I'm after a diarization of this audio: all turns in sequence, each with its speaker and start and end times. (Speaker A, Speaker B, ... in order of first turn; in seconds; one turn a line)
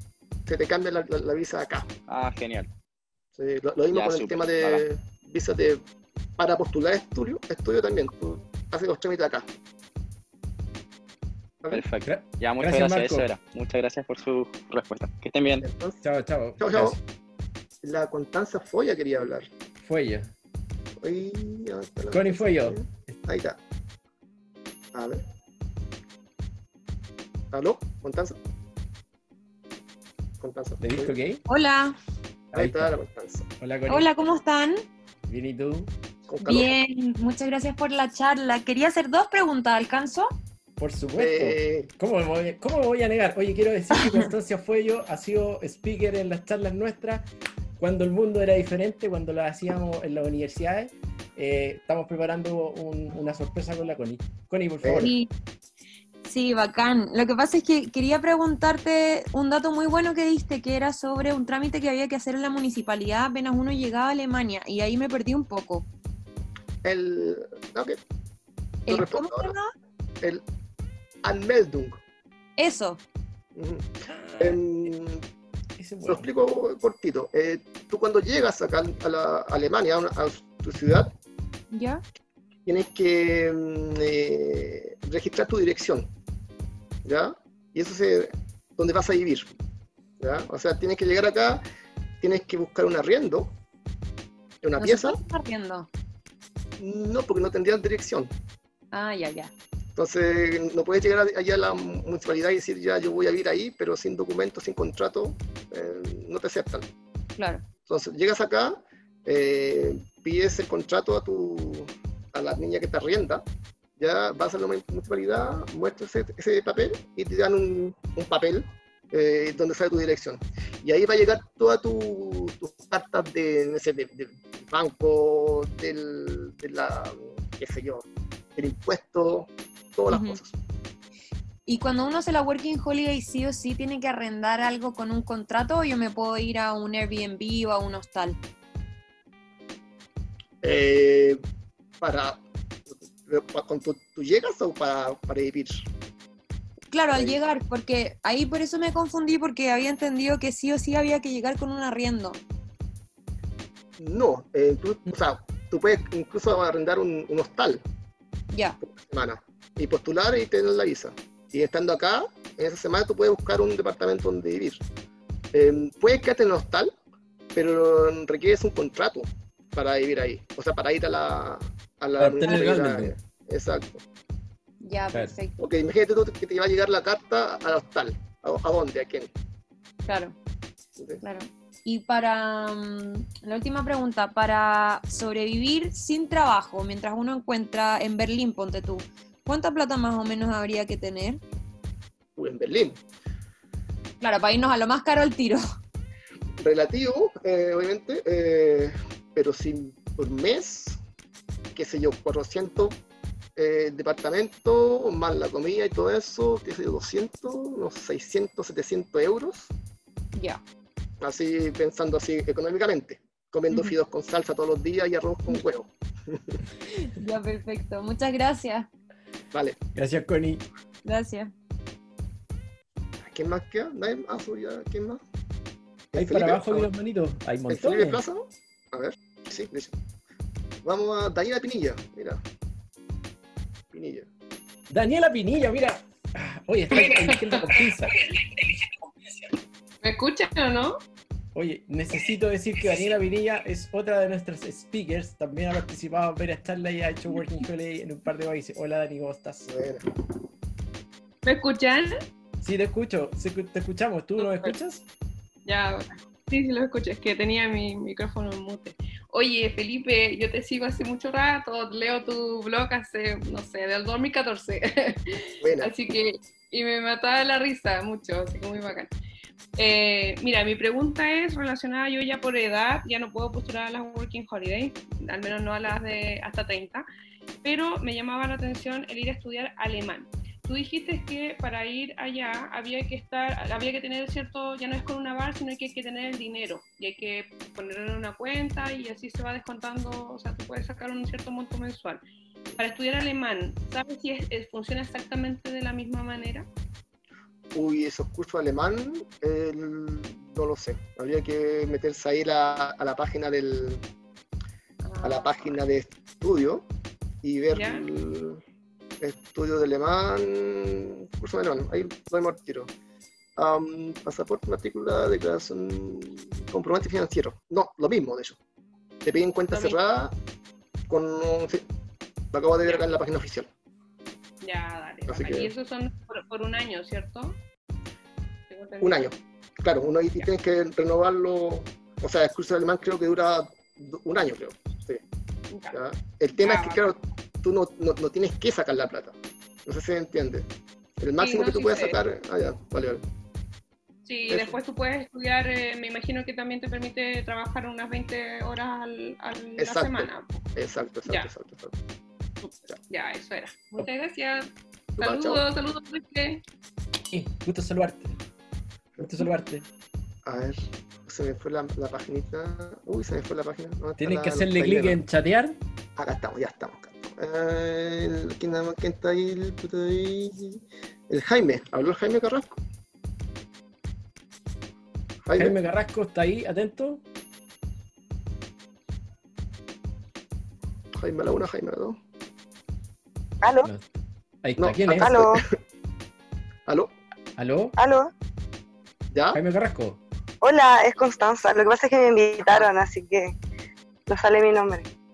Speaker A: 0.5-1.9
Speaker B: 2.1-2.7
Speaker A: 3.4-5.8
Speaker B: 3.9-4.8
Speaker A: 6.4-9.5
Speaker B: 11.7-15.7
Speaker C: 12.1-13.3
Speaker A: 15.6-16.0
Speaker C: 16.0-17.0
Speaker A: 16.6-17.0
Speaker A: 17.8-19.5
Speaker C: 19.8-20.3
Speaker A: 21.0-23.6
Speaker C: 22.1-23.2
Speaker A: 24.9-25.2
Speaker A: 27.5-28.4
Speaker A: 30.4-31.1
Speaker C: 30.8-31.4
Speaker D: 31.5-31.9
Speaker A: 32.5-33.5
Speaker C: 32.5-33.0
Speaker C: 33.6-34.4
Speaker D: 33.9-34.9
Speaker C: 35.3-35.9
Speaker A: 36.3-36.7
Speaker D: 36.4-40.3
Speaker C: 40.8-47.3
Speaker A: 41.2-41.9
Speaker C: 47.8-55.1
Speaker A: 54.8-55.1
Speaker D: 55.0-55.3
Speaker D: 56.2-65.9
Speaker A: 66.8-68.0
Speaker D: 68.9-69.7
Speaker A: 68.9-69.6
Speaker A: 71.2-72.0
Speaker D: 72.6-73.0
Speaker A: 73.6-75.2
Speaker C: 74.1-74.6
Speaker C: 75.8-76.3
Speaker A: 76.1-81.1
Speaker D: 81.7-82.0
Speaker A: 82.7-86.1
Speaker A: 87.0-89.5
Speaker A: 90.2-91.6
Speaker A: 92.2-93.5
Speaker A: 94.6-95.2
Speaker D: 94.8-95.9
Speaker A: 96.8-98.3
Speaker D: 98.9-99.5
Speaker A: 100.0-106.9
Speaker D: 107.4-107.7
Speaker A: 107.9-113.4
Speaker A: 114.0-130.5
Speaker D: 130.1-130.4
Speaker D: 131.7-138.4
Speaker A: 140.6-141.4
Speaker A: 142.0-145.9
Speaker D: 146.9-152.4
Speaker A: 154.0-157.8
Speaker D: 158.5-158.8
Speaker A: 158.8-164.8
Speaker A: 165.5-166.9
Speaker A: 167.5-174.0
Speaker C: 172.2-173.1
Speaker D: 174.8-175.6
Speaker A: 175.6-179.3
Speaker D: 180.1-180.3
Speaker D: 181.2-191.4
Speaker A: 192.4-193.0
Speaker D: 194.2-195.6
Speaker A: 196.6-201.0
Speaker A: 201.7-203.0
Speaker A: 203.6-209.7
Speaker D: 210.3-210.6
Speaker A: 211.2-216.6
Speaker D: 217.0-218.9
Speaker A: 219.5-219.8
Speaker C: 220.0-220.6
Speaker D: 221.1-221.5
Speaker A: 223.2-225.2
Speaker A: 226.1-226.9
Speaker C: 226.2-228.2
Speaker A: 227.7-229.9
Speaker A: 230.8-232.4
Speaker A: 233.9-234.3
Speaker C: 234.9-238.1
Speaker E: 237.0-237.7
Speaker E: 240.0-241.0
Speaker C: 241.6-249.7
Speaker A: 249.7-250.1
Speaker E: 251.4-252.2
Speaker C: 252.6-255.0
Speaker E: 254.4-254.7
Speaker E: 255.7-269.1
Speaker A: 265.6-265.9
Speaker E: 269.8-277.1
Speaker E: 277.6-292.2
Speaker E: 292.8-296.7
Speaker A: 297.7-304.0
Speaker E: 305.1-305.7
Speaker A: 305.2-306.9
Speaker A: 307.4-308.6
Speaker E: 307.7-308.1
Speaker A: 309.2-312.9
Speaker A: 313.6-318.6
Speaker A: 319.2-320.3
Speaker E: 319.7-320.0
Speaker A: 321.1-321.8
Speaker A: 322.5-323.7
Speaker E: 322.8-323.2
Speaker E: 324.6-327.6
Speaker A: 325.3-325.7
Speaker E: 328.7-329.3
Speaker A: 329.0-335.2
Speaker E: 335.7-336.0
Speaker A: 335.9-339.4
Speaker E: 336.6-337.1
Speaker A: 339.9-340.7
Speaker A: 341.2-343.2
Speaker E: 341.4-342.2
Speaker E: 344.2-350.7
Speaker A: 344.5-344.8
Speaker A: 349.8-351.9
Speaker E: 351.3-351.5
Speaker E: 352.6-354.7
Speaker A: 355.2-355.6
Speaker E: 355.2-356.6
Speaker C: 357.3-358.4
Speaker C: 359.2-359.8
Speaker A: 360.5-365.2
Speaker C: 364.2-365.8
Speaker A: 366.2-372.8
Speaker A: 375.4-375.8
Speaker C: 375.6-377.2
Speaker A: 381.1-382.2
Speaker F: 383.6-383.9
Speaker C: 383.8-385.4
Speaker A: 384.8-385.8
Speaker F: 385.1-385.5
Speaker C: 387.6-387.9
Speaker F: 388.0-388.3
Speaker A: 389.3-389.6
Speaker C: 389.5-390.2
Speaker F: 390.6-393.6
Speaker F: 394.3-395.1